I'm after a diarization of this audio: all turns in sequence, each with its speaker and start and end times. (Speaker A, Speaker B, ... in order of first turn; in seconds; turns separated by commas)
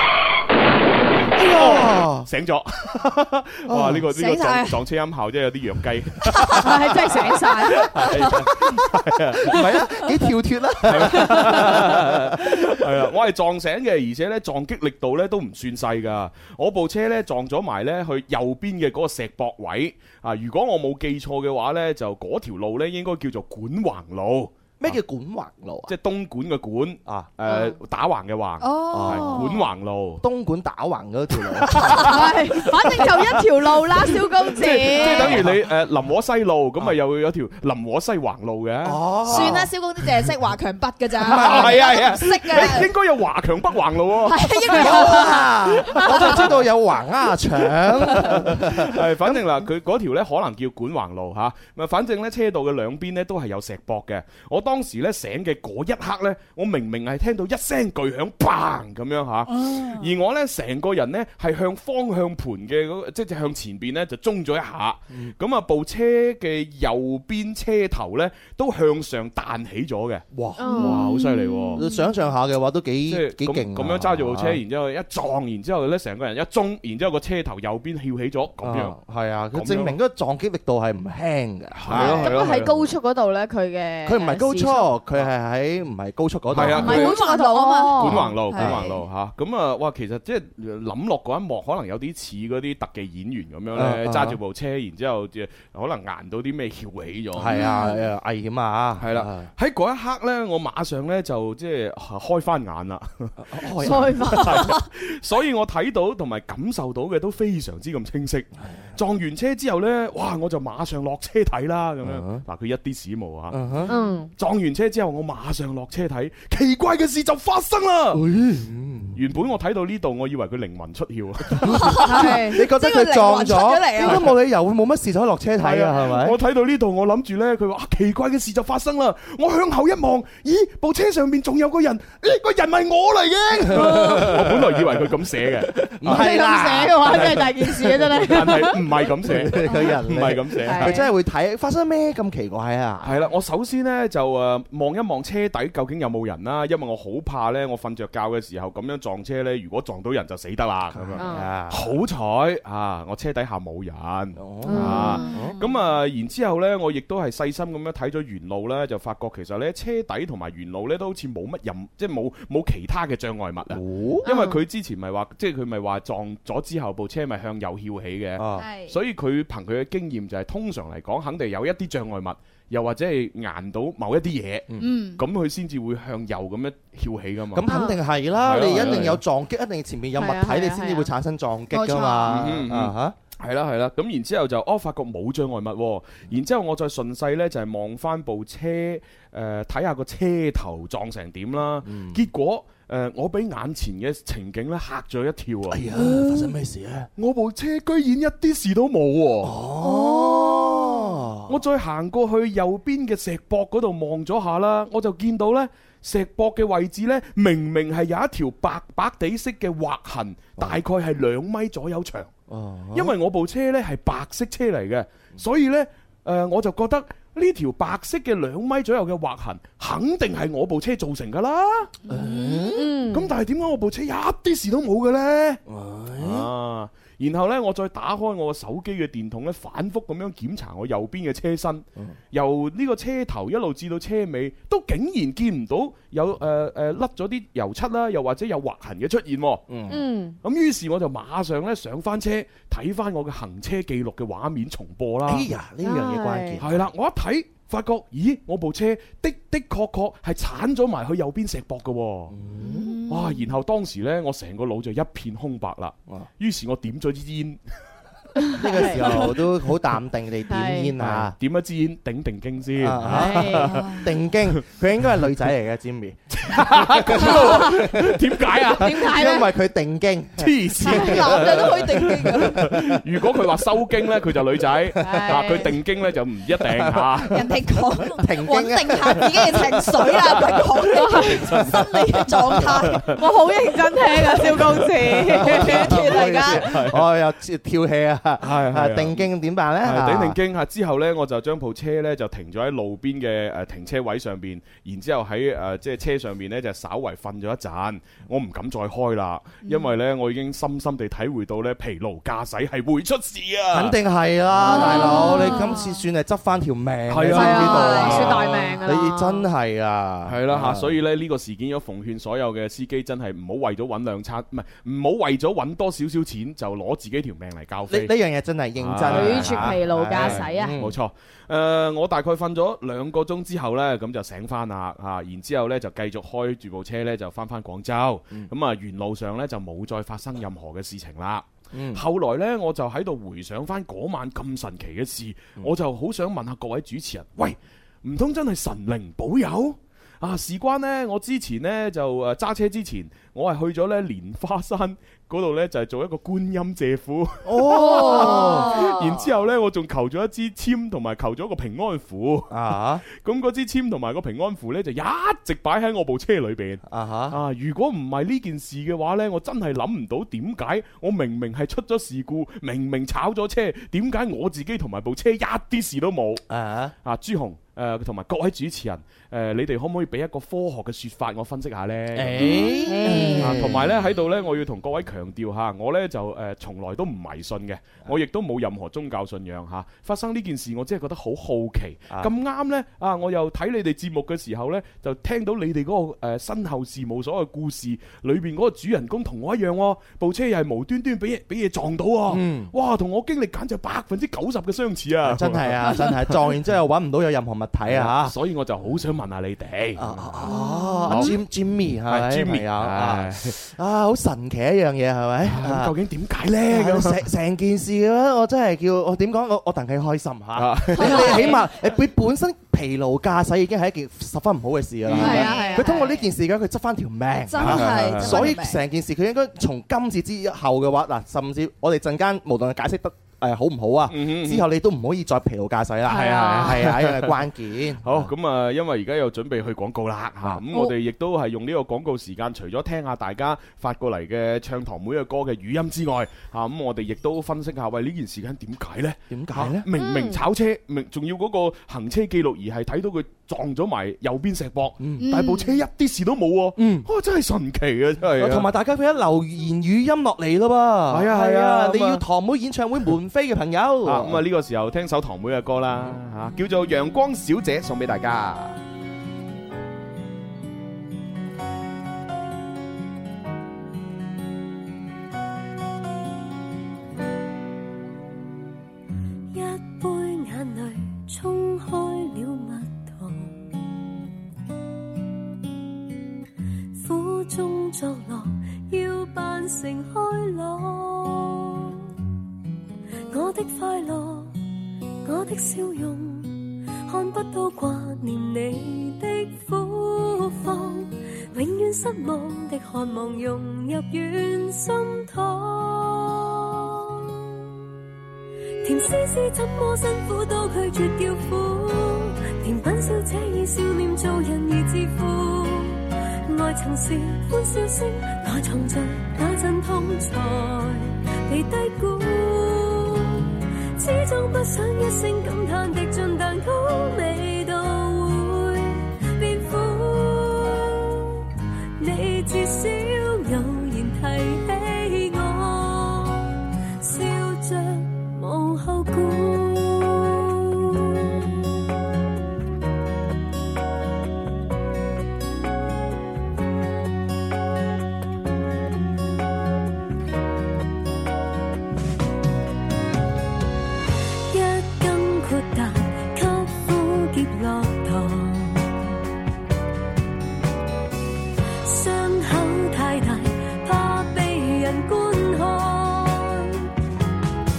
Speaker A: 1.2-7.1, Speaker B: 1.3-2.3, Speaker B: 3.6-4.1, Speaker C: 4.1-4.8, Speaker C: 6.3-6.6, Speaker D: 6.6-8.1, Speaker A: 7.8-9.7, Speaker B: 9.4-12.7, Speaker A: 10.8-24.9, Speaker D: 11.2-11.5, Speaker B: 24.8-25.9, Speaker A: 25.9-30.2, Speaker C: 28.6-29.6, Speaker B: 28.9-29.6, Speaker B: 30.2-32.3, Speaker A: 31.7-32.1, Speaker C: 31.8-32.1, Speaker D: 32.0-35.4, Speaker B: 32.9-33.4, Speaker A: 34.6-39.7, Speaker B: 35.0-35.6, Speaker B: 38.8-39.7, Speaker C: 39.3-42.9, Speaker B: 41.2-42.8, Speaker A: 41.2-46.5, Speaker C: 44.3-45.4, Speaker B: 44.7-49.4, Speaker D: 44.9-45.2, Speaker A: 48.1-71.8, Speaker C: 59.5-60.1, Speaker B: 70.4-71.0, Speaker D: 70.6-71.8, Speaker B: 71.8-74.6, Speaker A: 73.1-79.0, Speaker B: 78.6-82.6, Speaker A: 79.5-80.0, Speaker A: 81.8-82.8, Speaker D: 81.9-84.9, Speaker B: 84.0-87.0, Speaker A: 86.5-87.2, Speaker D: 86.6-88.3, Speaker C: 86.8-89.0, Speaker A: 88.0-97.6, Speaker B: 88.5-88.8, Speaker B: 93.7-94.4, Speaker B: 97.3-99.5, Speaker C: 97.5-98.0, Speaker A: 99.0-113.6, Speaker B: 103.4-104.7, Speaker D: 103.8-104.7, Speaker B: 112.0-112.4, Speaker B: 113.5-113.9, Speaker D: 113.9-114.3, Speaker A: 114.3-118.2, Speaker B: 118.1-119.2, Speaker A: 119.1-122.0, Speaker B: 121.6-126.4, Speaker C: 121.8-124.2, Speaker D: 122.0-122.6, Speaker A: 124.0-124.3, Speaker A: 125.6-136.3, Speaker B: 133.7-134.5, Speaker D: 134.0-134.2, Speaker B: 136.0-137.5, Speaker D: 136.0-138.8, Speaker A: 137.0-137.4, Speaker A: 138.2-141.0, Speaker B: 139.2-143.2, Speaker D: 139.6-139.9, Speaker D: 140.6-141.1, Speaker A: 143.0-177.7, Speaker B: 150.9-151.8, Speaker D: 151.2-151.5, Speaker B: 154.3-155.6, Speaker D: 154.6-155.6, Speaker B: 163.7-164.3, Speaker D: 164.2-164.6, Speaker B: 168.4-168.7, Speaker C: 168.6-168.9, Speaker C: 174.8-175.2, Speaker B: 177.5-183.1, Speaker D: 177.7-178.0, Speaker A: 178.4-179.2, Speaker D: 180.2-181.1, Speaker C: 181.7-182.5, Speaker A: 182.3-196.4, Speaker B: 191.8-192.2, Speaker B: 195.7-197.1, Speaker A: 197.2-199.5, Speaker B: 199.4-201.5, Speaker D: 199.8-200.8, Speaker A: 201.5-212.3, Speaker B: 212.5-213.1, Speaker A: 212.9-221.9, Speaker C: 222.0-222.7, Speaker B: 222.1-222.9, Speaker D: 222.2-223.3, Speaker A: 223.1-225.6, Speaker B: 225.7-226.5, Speaker A: 226.2-239.6, Speaker B: 239.7-240.0, Speaker D: 239.9-240.4, Speaker A: 240.4-245.5, Speaker B: 245.2-246.8, Speaker D: 245.8-246.6, Speaker A: 246.6-252.3, Speaker B: 252.3-253.0, Speaker C: 252.6-253.4, Speaker A: 253.1-257.6, Speaker D: 258.5-259.3, Speaker B: 258.5-261.3, Speaker D: 260.5-260.9, Speaker A: 261.0-263.9, Speaker B: 262.8-272.5, Speaker D: 263.1-264.0, Speaker C: 263.6-264.0, Speaker A: 266.3-269.2, Speaker D: 268.8-269.5, Speaker A: 270.4-277.5, Speaker D: 270.9-272.5, Speaker C: 270.9-272.5, Speaker B: 274.9-275.7, Speaker D: 275.0-275.7, Speaker B: 276.7-280.6, Speaker C: 277.3-283.2, Speaker A: 280.6-283.2, Speaker B: 281.6-282.9, Speaker D: 283.1-286.6, Speaker C: 284.2-284.6, Speaker A: 284.5-287.1, Speaker B: 285.3-290.4, Speaker C: 285.9-286.6, Speaker A: 288.4-289.3, Speaker A: 289.8-303.9, Speaker C: 299.6-299.9, Speaker B: 303.7-310.9, Speaker A: 304.6-305.1, Speaker D: 304.6-305.8, Speaker C: 304.6-305.9, Speaker A: 307.1-308.6, Speaker D: 307.3-309.5, Speaker C: 307.6-308.2, Speaker A: 310.2-318.1, Speaker B: 317.9-320.9, Speaker A: 318.8-352.5, Speaker D: 319.1-320.8, Speaker B: 331.7-332.0, Speaker B: 347.4-349.0, Speaker D: 347.7-349.0, Speaker B: 352.5-353.0, Speaker A: 353.0-366.4, Speaker B: 356.9-357.4, Speaker B: 366.5-366.9, Speaker A: 367.0-396.1, Speaker B: 372.1-373.9, Speaker D: 372.4-373.7, Speaker B: 392.3-392.7, Speaker B: 395.2-398.3, Speaker A: 397.9-400.5, Speaker B: 400.0-405.9, Speaker C: 400.5-401.1, Speaker A: 401.1-401.3, Speaker A: 402.1-403.6, Speaker A: 405.4-407.3, Speaker B: 406.7-428.3, Speaker A: 410.5-411.4, Speaker C: 411.0-411.6, Speaker A: 415.0-415.5, Speaker D: 415.2-416.1, Speaker C: 415.2-416.2, Speaker C: 417.5-418.8, Speaker A: 417.6-418.5, Speaker A: 424.1-424.7, Speaker D: 426.1-426.8, Speaker A: 426.1-427.3, Speaker A: 428.0-448.7, Speaker B: 439.3-439.8, Speaker D: 439.9-440.4, Speaker B: 445.0-445.3, Speaker C: 445.2-445.8, Speaker B: 446.8-447.1, Speaker B: 448.3-454.4, Speaker A: 451.1-452.2, Speaker A: 454.0-458.8, Speaker E: 469.5-473.7, Speaker E: 477.0-482.0, Speaker E: 483.3-484.6, Speaker E: 485.2-496.9, Speaker E: 498.8-521.3, Speaker E: 522.0-531.1, Speaker E: 544.5-548.9, Speaker E: 551.8-556.9